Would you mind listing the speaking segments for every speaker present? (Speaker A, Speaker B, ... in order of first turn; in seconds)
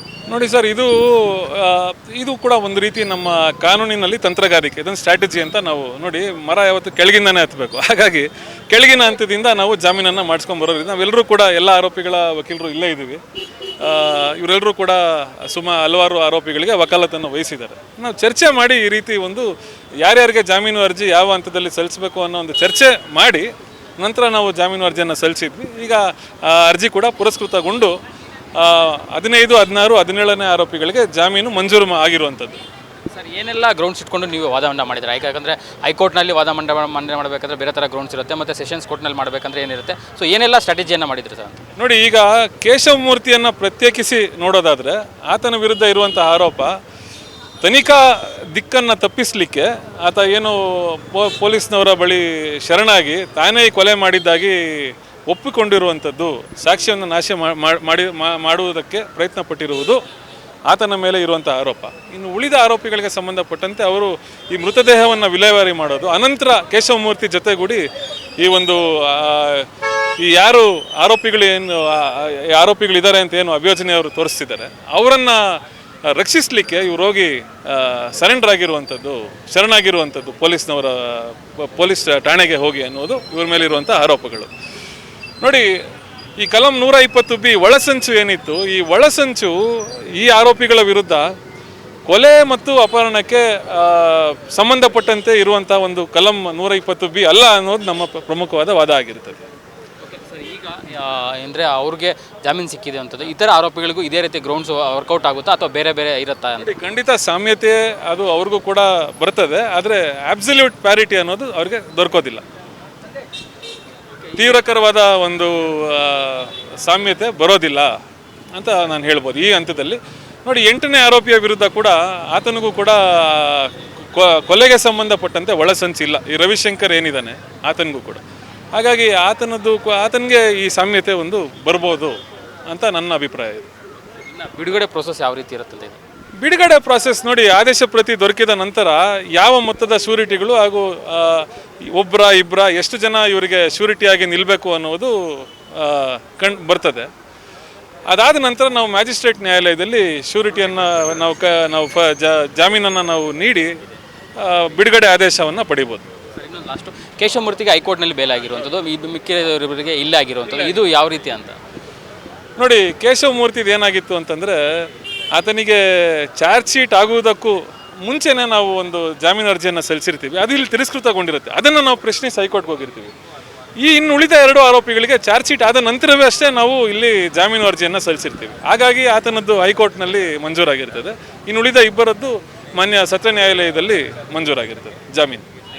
Speaker A: 0.3-13.2, 13.8-19.5, 20.0-23.5, 24.0-27.9, 28.6-32.6, 41.8-46.7, 47.6-60.0, 60.7-67.8, 68.4-84.5, 85.4-85.7, 86.4-91.3, 92.1-99.4, 106.6-112.4, 114.4-117.9, 118.5-128.2, 128.8-132.2, 132.7-133.7, 136.4-147.1, 148.1-153.7, 154.4-156.1, 162.6-164.6, 165.3-173.1, 173.8-185.4
Speaker B: 33.1-41.6, 100.0-106.7, 134.3-136.0, 156.4-161.6